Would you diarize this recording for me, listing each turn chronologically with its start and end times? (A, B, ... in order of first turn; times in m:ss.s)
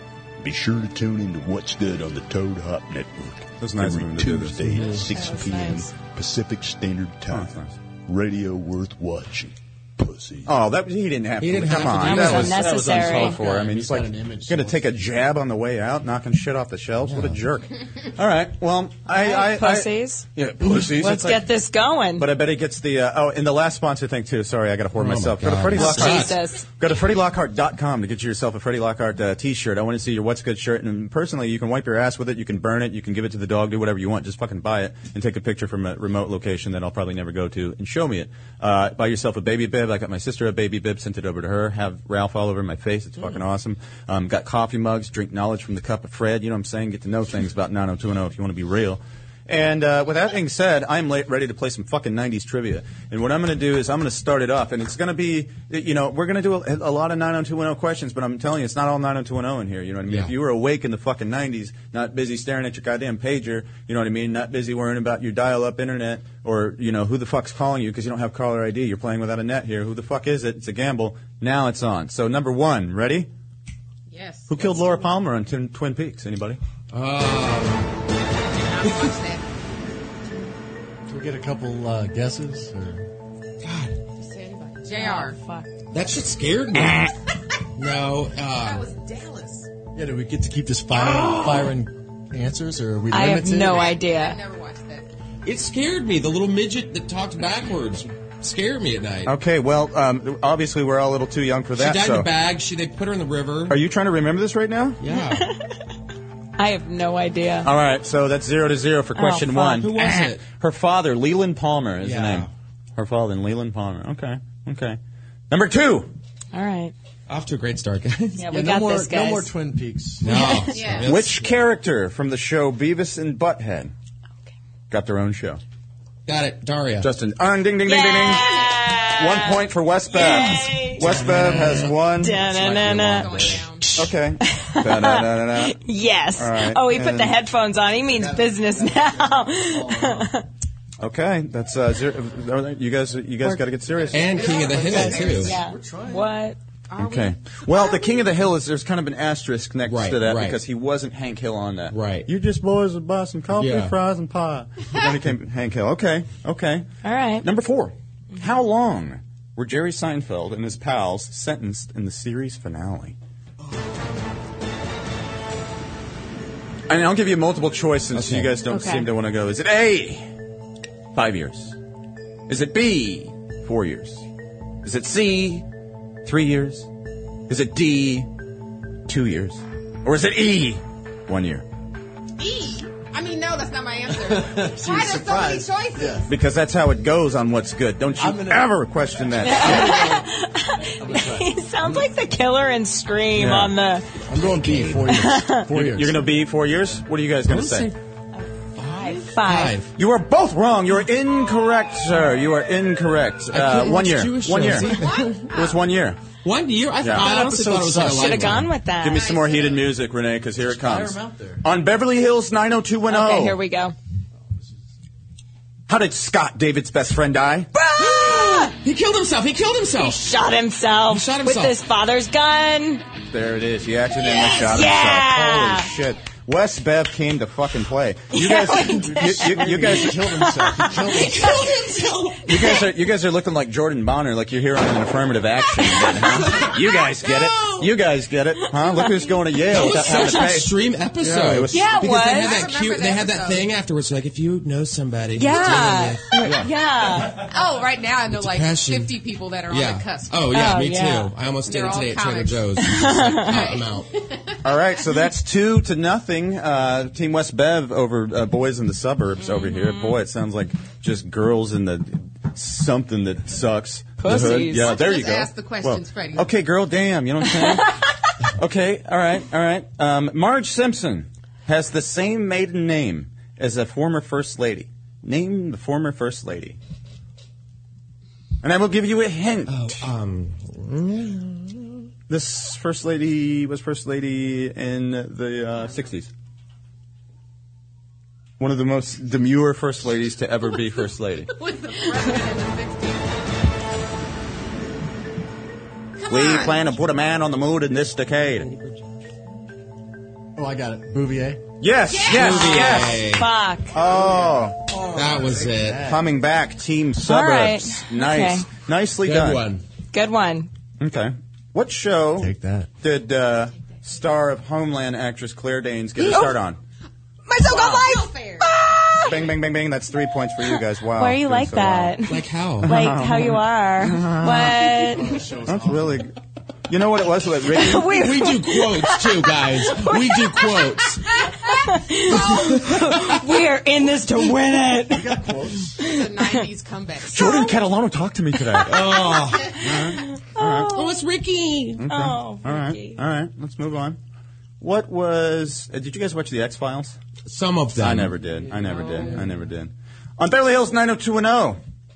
0:00.4-0:07.5 A
0:03.6-0:04.9 B
0:04.7-0:05.2 C
0:05.0-0:05.9 D
0:07.3-0:07.8 B
0:08.1-0:10.5 A
0:10.4-0:21.4 B
0:11.4-0:12.6 C
0:12.0-0:13.4 D
0:12.6-0:15.0 E
0:17.0-0:17.4 C
0:19.1-0:20.2 D
0:20.8-0:22.3 D
0:22.2-1:13.3 B
0:24.9-0:26.4 C
0:25.7-0:26.6 D
1:00.1-1:00.4 C
1:14.1-1:15.1 F
1:14.5-1:16.6 B
1:16.9-1:17.9 C
1:18.6-1:19.4 F
1:18.8-1:19.1 C
1:21.1-1:23.1 E
1:23.6-1:24.0 C
1:24.2-1:25.4 F
1:24.9-1:25.7 D
1:25.9-1:27.1 C
1:27.8-1:28.9 C
1:28.5-1:29.7 F
1:29.9-1:33.9 E
1:30.9-1:31.7 C
1:33.1-1:34.4 D
1:33.6-1:35.1 F
1:35.4-1:39.4 C
1:39.2-1:42.3 B
1:41.7-1:43.8 C
1:43.7-1:45.0 B
1:45.0-1:45.5 C
1:45.1-1:45.6 D
1:46.6-1:47.7 D
1:47.6-1:55.0 B
1:49.2-1:50.0 D
1:49.6-1:50.4 C
1:52.0-1:52.5 C
1:55.5-1:56.1 B
1:56.5-1:56.9 D
1:57.3-1:58.5 C
1:58.4-1:59.5 D
1:58.5-2:00.6 E
2:00.2-2:01.6 C
2:00.2-2:00.7 D
2:00.7-2:01.1 F
2:01.0-2:03.9 B
2:04.9-2:05.6 B
2:06.2-2:07.1 C
2:07.0-2:12.4 B
2:07.8-2:11.2 D
2:08.3-2:08.7 F
2:11.0-2:11.9 C
2:12.2-2:13.6 D
2:12.4-2:13.6 E
2:12.6-2:14.0 F
2:12.8-2:13.2 C
2:14.0-2:15.8 B
2:14.5-2:20.4 D
2:16.4-2:17.4 B
2:18.1-2:20.4 E
2:21.0-2:24.4 B
2:24.1-2:25.6 C
2:24.1-2:25.5 F
2:24.2-2:26.3 E
2:24.7-2:26.6 D
2:26.9-2:28.4 F
2:27.0-2:36.9 B
2:29.8-2:30.6 C
2:31.9-2:32.3 C
2:33.5-2:34.0 C
2:37.0-2:37.4 D
2:37.4-2:43.2 B
2:46.9-2:50.3 B
2:48.1-2:48.6 C
2:48.7-2:49.1 D
2:51.1-2:51.8 B
2:52.5-2:54.2 B
2:54.8-2:55.6 B
2:56.2-2:56.9 B
2:57.5-2:58.3 B
2:59.1-3:01.6 B
3:02.4-3:06.3 F
3:04.1-3:06.3 E
3:06.3-3:10.1 B
3:08.2-3:08.7 E
3:09.4-3:14.1 D
3:09.5-3:10.3 E
3:10.9-3:12.1 E
3:13.4-3:13.7 B
3:14.3-3:16.2 E
3:14.6-3:15.1 C
3:15.1-3:15.6 D
3:15.7-3:17.9 B
3:17.4-3:17.9 C
3:18.4-3:19.8 D
3:18.8-3:19.9 C
3:20.0-3:25.0 B
3:23.5-3:25.5 C
3:24.9-3:25.8 F
3:25.5-3:26.2 B
3:26.4-3:28.7 C
3:27.0-3:27.3 B
3:27.1-3:28.6 E
3:28.0-3:29.3 D
3:29.0-3:33.6 B
3:29.1-3:29.9 F
3:30.6-3:31.6 E
3:33.1-3:33.9 D
3:35.9-3:37.7 B
3:37.8-3:38.7 D
3:38.0-3:40.2 C
3:40.0-3:43.0 D
3:41.1-3:41.8 C
3:43.3-3:50.2 B
3:44.2-3:45.9 D
3:48.3-3:51.5 D
3:48.9-3:51.7 E
3:51.0-3:52.6 C
3:52.4-4:01.9 B
3:52.5-3:52.8 D
3:55.8-3:56.2 D
3:56.2-3:57.9 C
3:58.7-4:00.5 D
3:59.6-4:07.2 C
4:01.7-4:02.6 D
4:02.0-4:03.7 F
4:05.4-4:07.4 D
4:07.3-4:10.5 F
4:08.3-4:14.1 C
4:10.5-4:11.3 D
4:11.6-4:14.6 F
4:12.8-4:13.7 D
4:14.6-4:28.0 B
4:19.4-4:20.2 D
4:24.2-4:25.0 D
4:24.3-4:26.5 F
4:28.5-4:36.8 B
4:38.6-4:40.0 B
4:39.7-4:42.1 C
4:42.3-4:46.3 B
4:48.6-4:51.5 B
4:51.5-4:53.3 F
4:56.2-4:56.9 F
4:56.3-4:58.7 B
4:58.6-4:58.9 C
5:00.6-5:01.6 E
5:01.8-5:03.2 B
5:02.1-5:03.0 F
5:02.3-5:03.5 C
5:02.3-5:03.9 D
5:03.9-5:04.8 B
5:04.0-5:06.3 E
5:05.1-5:06.1 C
5:06.0-5:09.6 B
5:07.2-5:08.6 D
5:09.2-5:09.8 C
5:10.1-5:10.7 D
5:11.0-5:16.8 B
5:12.4-5:12.9 E
5:16.2-5:16.5 D
5:17.5-5:19.5 D
5:17.6-5:18.7 F
5:19.2-5:22.2 B
5:20.6-5:25.4 D
5:22.3-5:22.9 C
5:22.8-5:26.3 B
5:25.1-5:26.3 E
5:26.9-5:28.2 B
5:27.7-5:35.4 D
5:28.0-5:31.2 C
5:32.5-5:33.3 C
5:35.1-5:36.0 E
5:36.0-5:36.6 D
5:36.0-5:37.7 F
5:37.3-5:39.1 B
5:38.8-5:39.8 C
5:39.8-5:40.9 B
5:40.2-5:41.1 D
5:40.9-5:42.1 C
5:42.0-5:44.2 B
5:42.1-5:43.2 D
5:44.8-5:47.2 B
5:47.4-5:48.4 C
5:48.0-5:51.8 B
5:49.1-5:49.4 C